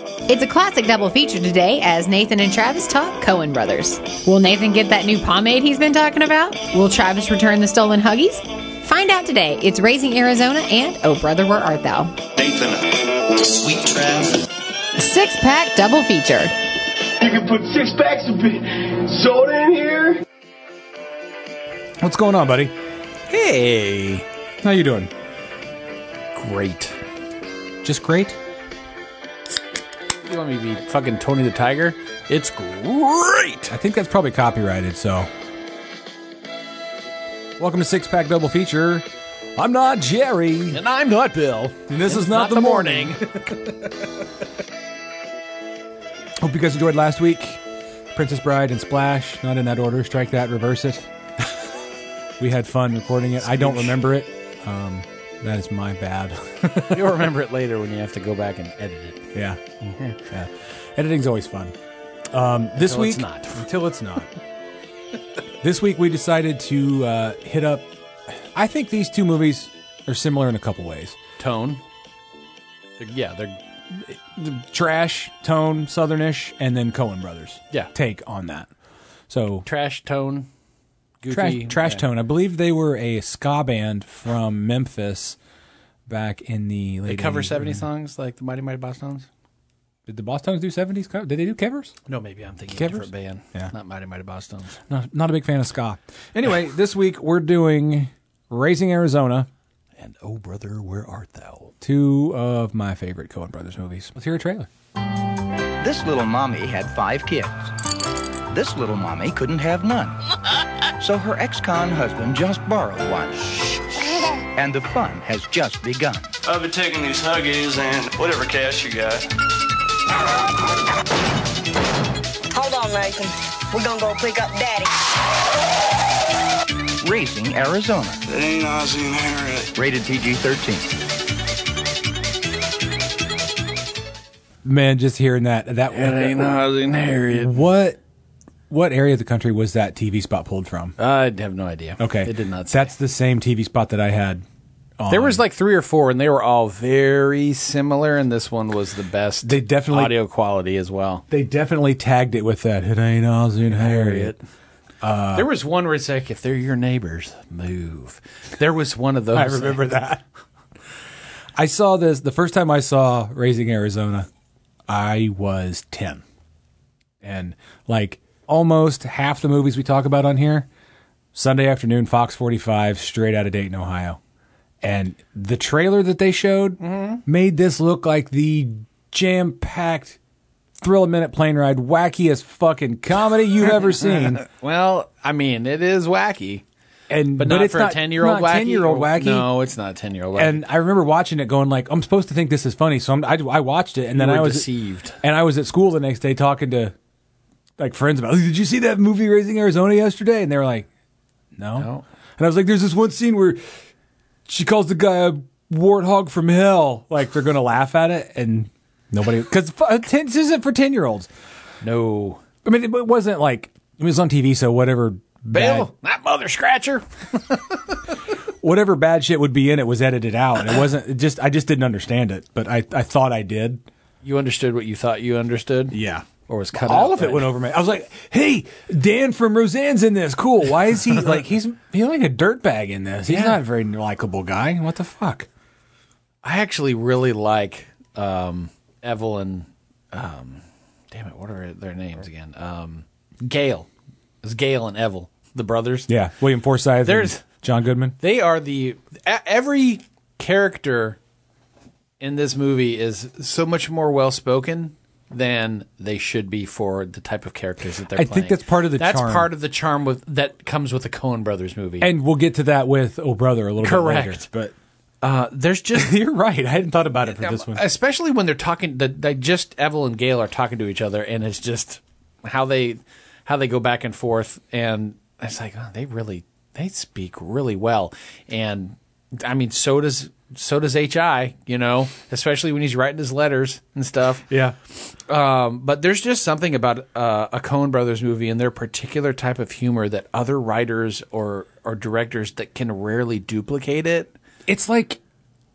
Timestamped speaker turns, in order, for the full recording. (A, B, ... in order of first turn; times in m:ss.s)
0:00.3-0:12.1 A
0:15.0-0:16.5 A
0:17.2-0:20.2 B
0:22.0-0:22.7 C
0:23.3-0:24.3 D
0:24.6-0:25.1 C
0:26.4-0:27.0 D
0:27.8-0:28.4 C
0:30.2-0:33.7 D
0:33.7-0:35.3 C
0:37.6-0:40.8 C
0:40.7-0:43.2 D
0:41.9-0:43.2 C
0:46.4-0:47.6 C
0:48.1-0:51.1 C
0:52.4-0:57.2 C
0:53.4-0:54.0 D
0:56.9-0:59.2 D
0:59.3-0:59.6 C
0:59.8-1:00.2 D
1:00.2-1:01.7 C
1:02.3-1:04.3 C
1:02.8-1:03.6 D
1:05.6-1:07.9 C
1:08.5-1:11.2 C
1:11.4-1:11.8 D
1:13.0-1:13.6 D
1:13.9-1:18.7 C
1:19.3-1:19.6 C
1:19.6-1:20.5 D
1:21.2-1:22.0 D
1:21.3-1:25.4 C
1:26.1-1:27.8 C
1:27.1-1:29.3 D
1:30.1-1:31.9 C
1:32.1-1:34.8 D
1:32.7-1:33.7 C
1:34.9-1:39.5 C
1:40.0-1:41.8 D
1:41.8-1:44.7 C
1:45.8-1:47.7 E
1:48.5-1:50.2 E
1:51.0-1:53.8 E
1:54.6-1:56.3 E
1:56.5-1:59.2 F
2:02.5-2:04.9 G
2:07.0-2:08.2 E
2:08.3-2:09.7 F
2:09.8-2:10.9 E
2:14.6-2:16.5 C
2:15.9-2:17.7 D
2:17.4-2:18.0 C
2:18.7-2:21.0 C
2:21.0-2:22.9 D
2:22.0-2:24.4 C
2:25.0-2:25.4 C
2:25.1-2:31.2 D
2:29.4-2:30.1 C
2:31.3-2:34.4 C
2:33.7-2:34.4 D
2:35.0-2:35.5 C
2:35.3-2:39.8 D
2:39.3-2:40.2 C
2:41.6-2:44.3 C
2:44.9-2:46.2 C
2:47.2-2:50.7 C
2:51.3-2:54.2 C
2:54.8-3:00.2 C
2:56.8-2:57.2 D
3:00.8-3:04.4 C
3:03.9-3:06.6 D
3:07.1-3:09.5 C
3:07.4-3:10.6 D
3:10.4-3:14.7 C
3:14.1-3:15.2 D
3:15.2-3:16.9 C
3:17.8-3:20.9 C
3:21.6-3:23.7 C
3:21.8-3:22.0 D
3:24.5-3:31.3 C
3:31.8-3:32.4 D
3:32.6-3:35.9 C
3:35.5-3:37.6 D
3:38.6-3:43.8 C
3:44.2-3:47.5 D
3:45.9-3:55.5 C
3:53.3-3:53.6 D
3:56.4-4:03.9 D
4:04.4-4:06.1 D
4:06.1-4:08.2 C
4:07.0-4:07.4 D
4:08.2-4:11.2 D
4:12.2-4:22.1 D
4:18.1-4:19.5 C
4:22.0-4:24.7 C
4:23.8-4:24.5 D
4:25.2-4:26.2 D
4:26.0-4:27.8 C
4:27.3-4:44.5 D
4:44.5-4:44.8 C
4:45.1-4:54.3 D
4:54.7-4:55.2 C